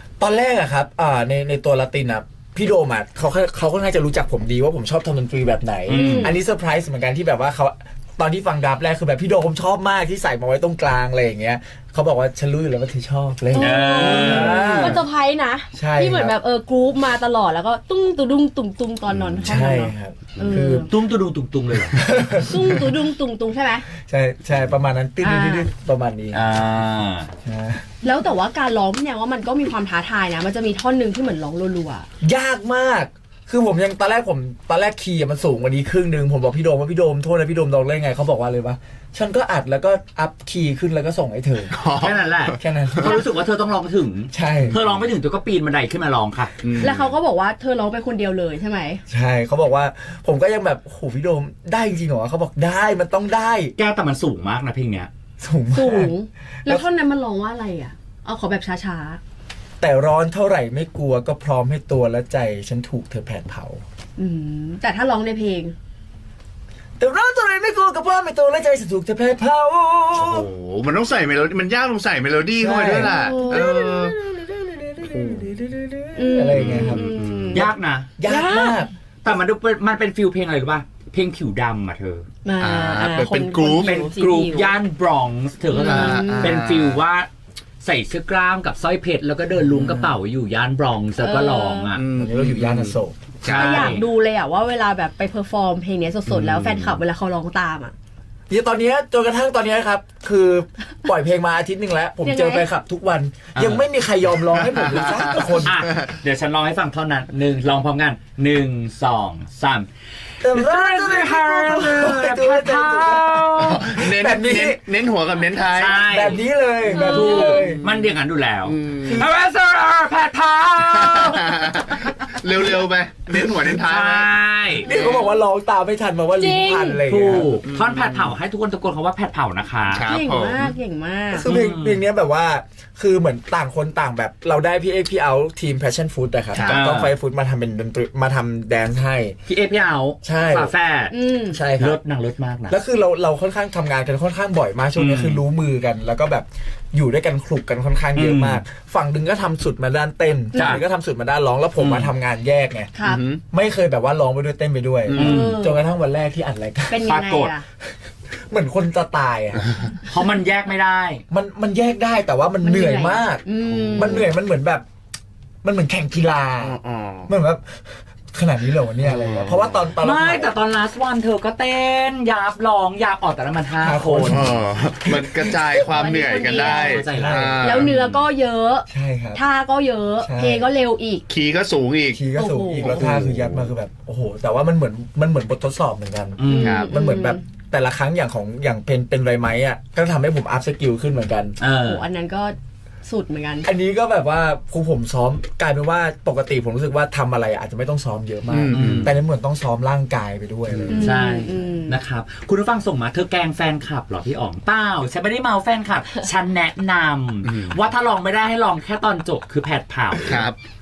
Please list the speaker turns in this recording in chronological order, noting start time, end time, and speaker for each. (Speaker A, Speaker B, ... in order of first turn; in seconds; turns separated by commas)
Speaker A: 0.2-15.0, Speaker B: 5.9-6.3, Speaker C: 5.9-6.4, Speaker C: 13.5-20.9, Speaker B: 13.6-14.9, Speaker A: 15.8-16.4, Speaker D: 19.1-19.4, Speaker A: 19.4-20.9, Speaker B: 20.8-22.0, Speaker A: 22.0-22.8, Speaker C: 22.4-23.9, Speaker A: 24.0-26.6, Speaker C: 25.2-25.7, Speaker B: 26.3-27.3, Speaker A: 27.4-27.9, Speaker C: 28.0-32.1, Speaker A: 32.2-41.8, Speaker D: 41.7-43.1, Speaker B: 42.0-46.5, Speaker A: 42.6-43.2, Speaker A: 44.3-44.8, Speaker D: 46.6-47.1, Speaker C: 46.8-49.0, Speaker A: 49.1-53.7, Speaker B: 53.8-55.1, Speaker A: 55.4-56.1, Speaker C: 55.7-59.2, Speaker A: 59.8-63.8, Speaker C: 64.2-65.8, Speaker A: 67.0-70.5, Speaker D: 70.2-74.2, Speaker A: 72.6-77.1, Speaker C: 73.0-73.8, Speaker D: 75.1-75.5, Speaker C: 76.2-77.7, Speaker D: 76.5-77.7, Speaker B: 77.5-78.1, Speaker A: 78.2-78.9, Speaker C: 78.2-78.9, Speaker B: 79.2-82.3, Speaker C: 82.5-84.7, Speaker D: 82.6-84.0, Speaker B: 83.8-87.3, Speaker C: 85.7-86.6, Speaker D: 85.8-87.0, Speaker B: 87.8-92.0, Speaker D: 89.6-90.1, Speaker C: 91.2-91.9, Speaker D: 92.0-94.0, Speaker A: 92.1-93.2, Speaker B: 93.5-94.0, Speaker C: 93.5-98.0, Speaker D: 96.3-97.0, Speaker A: 98.5-105.8, Speaker C: 102.2-102.7, Speaker B: 103.5-103.8, Speaker D: 104.8-106.1, Speaker B: 105.6-109.9, Speaker A: 110.4-114.8, Speaker B: 110.5-113.8, Speaker D: 113.6-116.1, Speaker B: 115.7-116.4, Speaker A: 116.0-117.9, Speaker C: 116.9-117.7, Speaker B: 117.0-121.6, Speaker D: 118.6-119.3, Speaker A: 119.0-119.3, Speaker D: 120.9-124.4, Speaker B: 123.7-124.9, Speaker A: 124.8-127.5, Speaker D: 124.9-125.2, Speaker C: 126.4-127.0, Speaker B: 127.1-130.1, Speaker D: 127.6-128.3, Speaker D: 129.9-130.7, Speaker C: 130.0-131.5, Speaker A: 131.3-139.4, Speaker B: 131.4-132.0, Speaker D: 136.6-136.9, Speaker B: 136.6-137.1, Speaker B: 139.5-141.2, Speaker A: 140.2-140.7, Speaker C: 141.1-141.6, Speaker A: 141.5-142.0, Speaker B: 141.7-142.8, Speaker A: 142.7-152.9, Speaker B: 145.0-145.4, Speaker B: 148.2-148.6, Speaker C: 150.6-150.8, Speaker B: 150.6-150.8, Speaker B: 151.8-152.1, Speaker C: 153.0-153.2, Speaker D: 153.0-153.4, Speaker A: 153.5-157.2, Speaker D: 155.1-155.6, Speaker B: 155.2-155.6, Speaker C: 155.2-155.8, Speaker C: 156.9-157.7, Speaker B: 157.1-157.6, Speaker A: 158.5-159.7, Speaker B: 160.1-161.2, Speaker A: 161.3-164.8, Speaker C: 162.6-164.3, Speaker D: 163.6-164.2, Speaker A: 165.6-170.5, Speaker D: 166.6-167.3, Speaker D: 169.0-169.9, Speaker B: 170.0-174.4, Speaker A: 173.8-176.0, Speaker D: 174.3-178.1, Speaker C: 175.9-177.0, Speaker B: 176.4-177.5, Speaker A: 177.1-177.9, Speaker C: 177.6-181.2, Speaker A: 178.9-179.4, Speaker A: 180.2-180.7, Speaker D: 181.3-183.7, Speaker A: 182.1-191.6, Speaker C: 182.3-183.0, Speaker B: 186.4-186.8, Speaker C: 186.5-187.4, Speaker D: 186.6-186.9, Speaker B: 191.6-192.1, Speaker C: 191.8-193.7, Speaker A: 193.6-201.2, Speaker D: 198.5-199.2, Speaker B: 198.7-199.1, Speaker D: 200.7-201.0, Speaker C: 200.9-202.0, Speaker B: 200.9-210.4, Speaker D: 207.4-207.8, Speaker D: 210.2-210.6